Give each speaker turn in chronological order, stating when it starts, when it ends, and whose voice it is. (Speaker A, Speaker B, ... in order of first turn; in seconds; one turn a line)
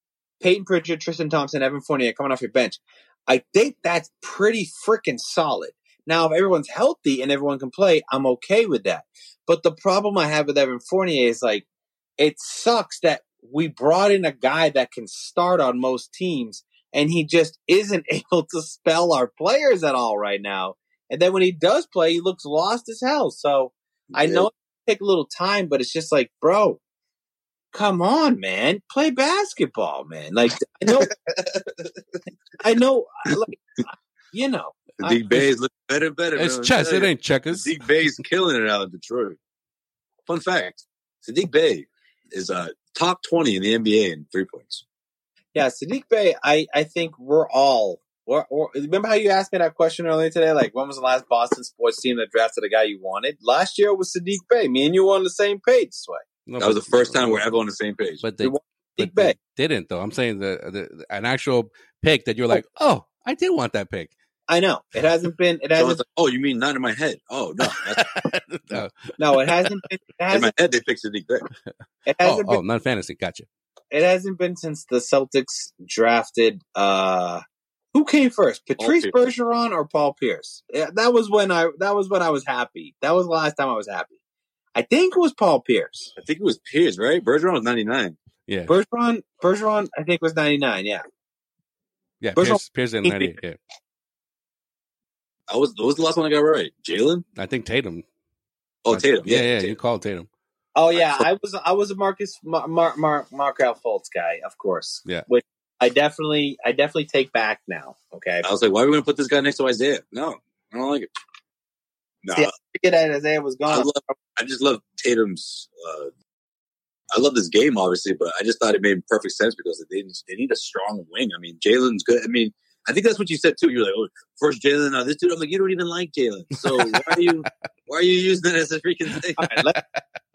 Speaker A: 0.4-11.6
Speaker A: 12.2-26.8
Speaker B: 24.1-24.5
Speaker A: 27.7-31.1
Speaker B: 30.8-31.9
Speaker A: 32.6-33.5
Speaker A: 34.3-35.2
Speaker B: 35.0-39.4
Speaker C: 36.4-37.7
Speaker B: 40.3-44.8
Speaker A: 45.5-56.2
Speaker C: 56.5-57.5
Speaker B: 56.6-58.2
Speaker C: 58.2-64.1
Speaker A: 58.4-59.3
Speaker A: 64.5-66.0
Speaker B: 65.8-68.1
Speaker C: 67.7-69.1
Speaker A: 69.2-70.5
Speaker B: 70.3-71.5
Speaker A: 72.0-72.6
Speaker C: 72.2-73.5
Speaker A: 73.9-77.4
Speaker A: 77.9-84.1
Speaker B: 78.8-79.2
Speaker A: 84.7-86.1
Speaker B: 86.2-88.2
Speaker C: 88.5-88.7
Speaker A: 88.7-91.0
Speaker C: 92.2-93.6
Speaker A: 92.3-93.3
Speaker B: 95.5-97.2
Speaker C: 97.3-98.0
Speaker B: 98.8-99.8
Speaker C: 98.9-100.3
Speaker A: 100.7-108.5
Speaker B: 101.0-101.2
Speaker B: 108.4-111.1
Speaker B: 112.2-112.5
Speaker A: 112.3-113.9
Speaker B: 113.7-116.1
Speaker B: 117.1-129.4
Speaker C: 126.6-127.5
Speaker A: 129.4-129.8